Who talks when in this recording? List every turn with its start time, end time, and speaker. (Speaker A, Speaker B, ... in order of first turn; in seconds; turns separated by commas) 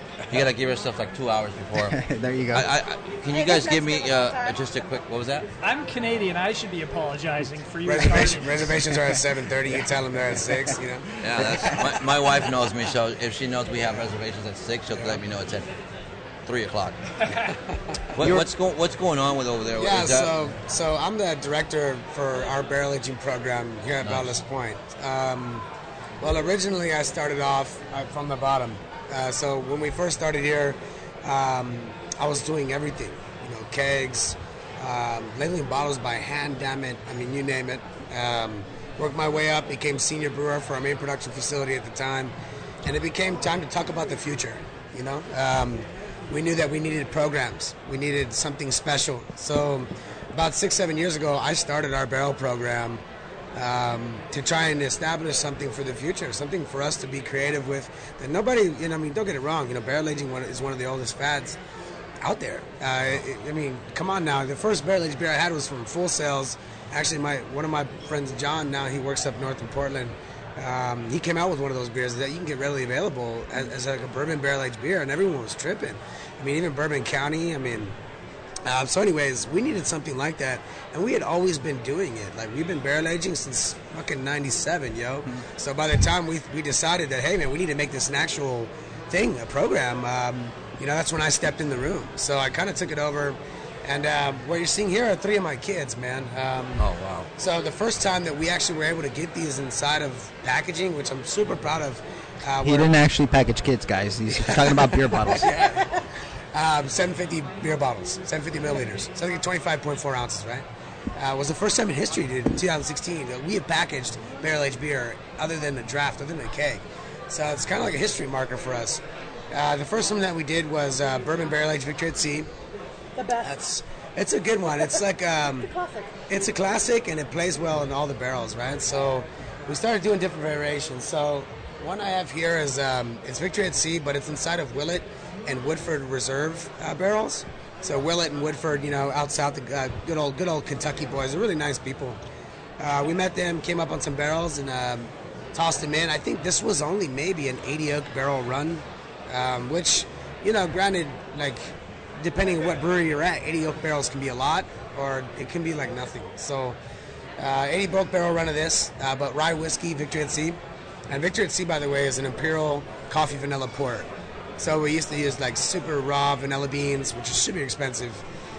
Speaker A: 0.3-2.0, Speaker B: 1.8-2.7, Speaker A: 2.5-5.5, Speaker C: 3.3-4.6, Speaker D: 5.6-9.1, Speaker E: 7.8-11.7, Speaker A: 11.2-15.7, Speaker E: 14.9-15.2, Speaker A: 16.4-17.0, Speaker A: 18.1-20.5, Speaker B: 18.2-18.5, Speaker E: 19.8-25.6, Speaker A: 24.0-24.4, Speaker E: 26.2-53.0, Speaker E: 53.5-61.6, Speaker E: 62.2-77.9, Speaker E: 78.6-96.8, Speaker A: 96.8-97.3, Speaker E: 97.4-102.9, Speaker B: 102.6-105.5, Speaker E: 104.3-105.9, Speaker C: 105.7-106.0, Speaker E: 106.5-122.5, Speaker C: 123.2-123.5, Speaker E: 123.4-125.7, Speaker C: 125.6-126.2, Speaker E: 126.3-142.2, Speaker E: 142.8-156.8, Speaker E: 157.4-160.6, Speaker E: 161.1-168.2